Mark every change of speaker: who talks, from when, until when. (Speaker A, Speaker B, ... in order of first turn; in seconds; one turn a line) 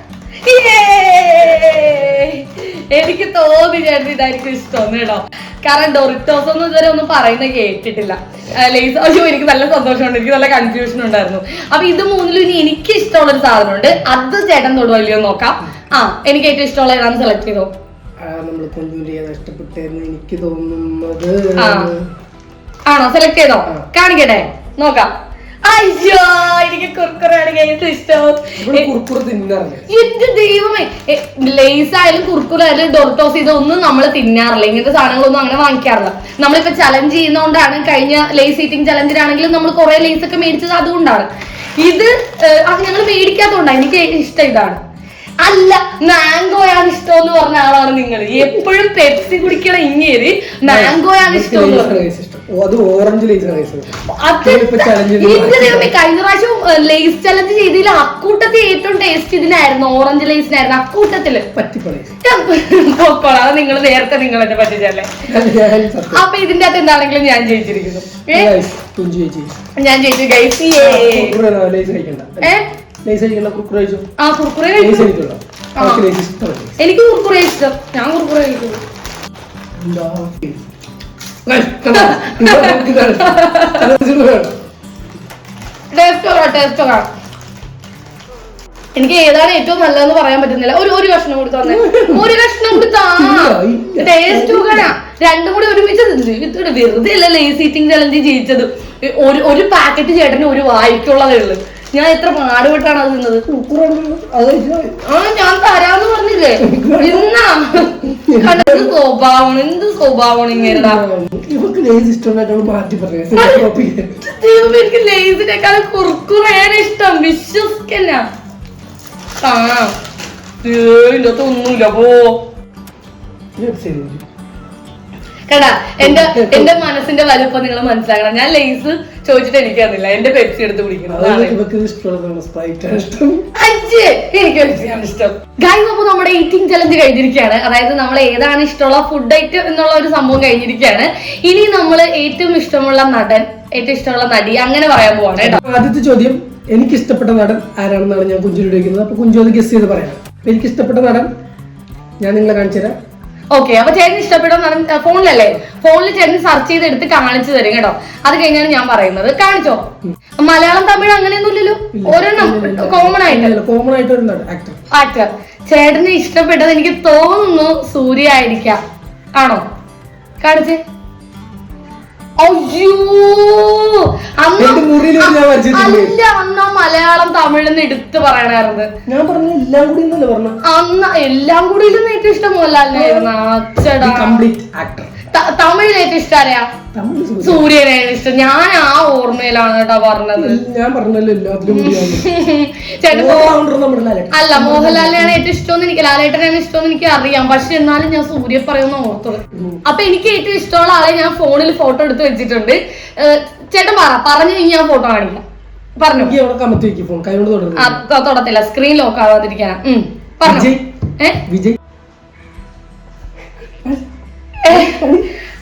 Speaker A: 0.4-17.7
Speaker B: 18.2-22.1
Speaker A: 21.6-21.9
Speaker A: 22.9-25.1
Speaker A: 25.6-28.9
Speaker B: 28.6-29.9
Speaker A: 29.9-44.8
Speaker A: 45.4-52.1
Speaker B: 50.6-55.9
Speaker A: 54.1-61.5
Speaker B: 61.5-62.1
Speaker A: 62.2-65.1
Speaker B: 65.3-66.2
Speaker A: 66.1-68.5
Speaker B: 68.3-69.6
Speaker A: 69.8-71.4
Speaker B: 70.8-74.1
Speaker A: 72.4-72.7
Speaker A: 74.2-75.1
Speaker B: 74.8-76.8
Speaker A: 75.8-76.1
Speaker A: 76.8-78.8
Speaker B: 79.8-80.6
Speaker B: 81.5-84.5
Speaker A: 81.9-83.9
Speaker A: 85.9-87.1
Speaker A: 89.0-103.5
Speaker B: 91.6-94.9
Speaker B: 103.5-105.0
Speaker A: 105.0-111.0
Speaker B: 106.6-107.3
Speaker B: 108.1-108.9
Speaker B: 110.5-114.3
Speaker A: 113.4-118.2
Speaker A: 119.4-119.9
Speaker A: 120.6-122.4
Speaker B: 123.6-124.2
Speaker A: 125.5-131.6
Speaker B: 126.0-126.8
Speaker B: 131.1-133.5
Speaker A: 133.6-145.6
Speaker B: 145.4-151.3
Speaker B: 152.2-152.9
Speaker A: 153.5-159.9
Speaker A: 160.4-163.5
Speaker B: 161.9-164.8
Speaker A: 164.9-168.8
Speaker A: 169.3-169.6
Speaker A: 170.4-170.8
Speaker A: 172.4-178.9
Speaker B: 174.6-176.2
Speaker B: 179.1-180.6
Speaker A: 180.7-184.4
Speaker B: 182.9-183.3
Speaker B: 184.0-185.1
Speaker A: 185.3-186.7
Speaker B: 186.9-187.7
Speaker A: 187.4-190.6
Speaker B: 190.4-192.3
Speaker A: 191.7-193.5
Speaker B: 193.1-195.4
Speaker A: 194.3-205.4
Speaker B: 199.5-199.8
Speaker A: 206.0-206.3
Speaker B: 206.1-208.0
Speaker A: 207.8-211.4
Speaker B: 210.4-210.9
Speaker B: 211.5-211.8
Speaker A: 214.6-215.0
Speaker B: 214.7-215.3